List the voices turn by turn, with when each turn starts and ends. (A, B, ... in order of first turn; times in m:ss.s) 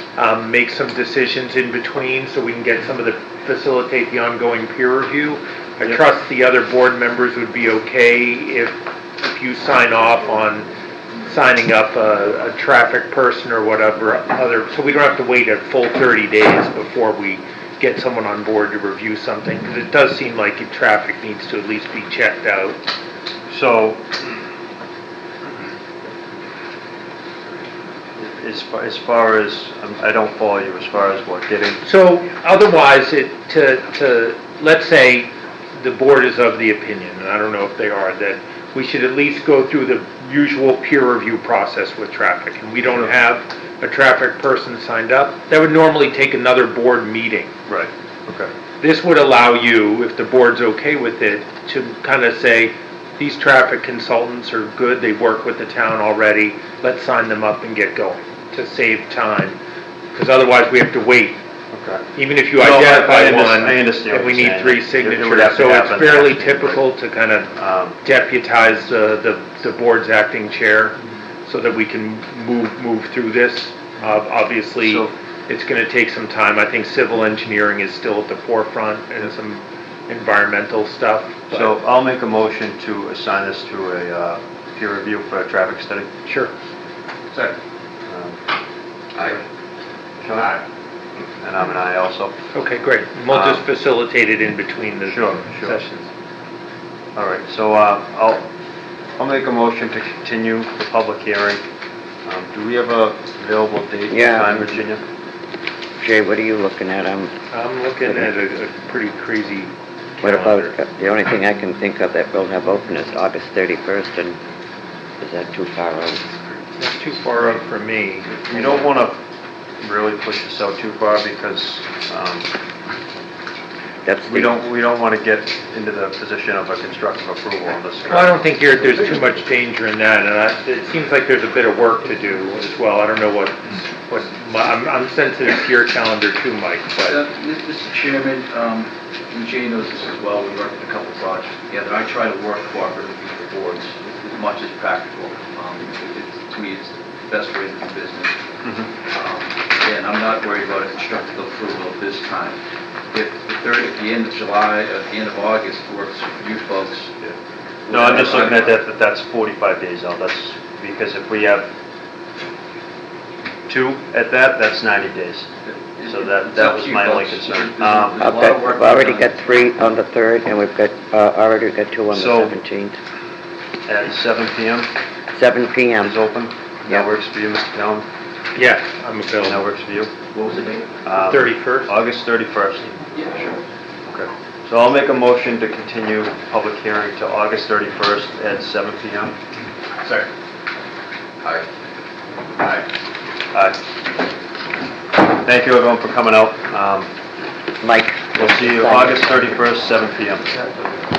0:00.2-0:10.7 A
0:11.2-0:22.8 A
0:23.5-0:24.1 B
0:28.2-0:31.8 B
0:31.8-0:47.5 A
0:47.7-0:48.5 B
0:48.8-0:59.6 A
1:00.1-1:01.4 A
1:01.7-1:02.0 B
1:02.2-1:21.8 A
1:02.6-1:06.8 B
1:07.5-1:08.0 B
1:14.8-1:15.1 B
1:21.5-1:26.1 B
1:26.2-1:26.5 A
1:28.1-1:28.4 B
1:29.2-1:29.4 B
1:30.2-1:30.6 B
1:31.2-1:32.4 B
1:32.5-1:36.1 A
1:33.3-1:33.6 B
1:35.0-1:35.8 B
1:37.1-1:38.4 B
1:39.2-1:41.6 B
1:42.2-1:45.0 B
1:44.1-1:44.7 C
1:46.0-1:47.3 C
1:47.5-1:50.8 A
1:48.0-1:48.3 C
1:50.2-1:54.4 C
1:55.2-1:56.3 C
1:56.8-1:58.7 A
1:58.4-1:59.2 B
1:59.8-2:02.5 B
2:04.0-2:04.5 C
2:04.3-2:09.0 B
2:08.1-2:17.2 A
2:17.1-2:28.4 D
2:28.6-2:28.9 B
2:29.1-2:32.6 D
2:33.1-2:37.1 D
2:37.8-2:38.8 D
2:37.9-2:41.7 B
2:43.7-2:45.5 B
2:45.6-2:49.3 D
2:46.0-2:48.2 B
2:48.2-2:53.0 C
2:52.1-2:52.5 B
2:53.9-2:54.9 B
2:55.3-2:56.2 C
2:56.0-2:58.1 B
2:58.5-2:59.7 A
2:59.4-3:00.1 B
3:00.3-3:00.8 D
3:01.0-3:03.0 B
3:01.2-3:02.0 A
3:03.1-3:03.6 D
3:04.1-3:09.4 B
3:10.0-3:10.3 D
3:12.6-3:12.8 D
3:13.5-3:13.8 B
3:15.3-3:17.1 B
3:17.8-3:19.5 C
3:18.3-3:20.5 B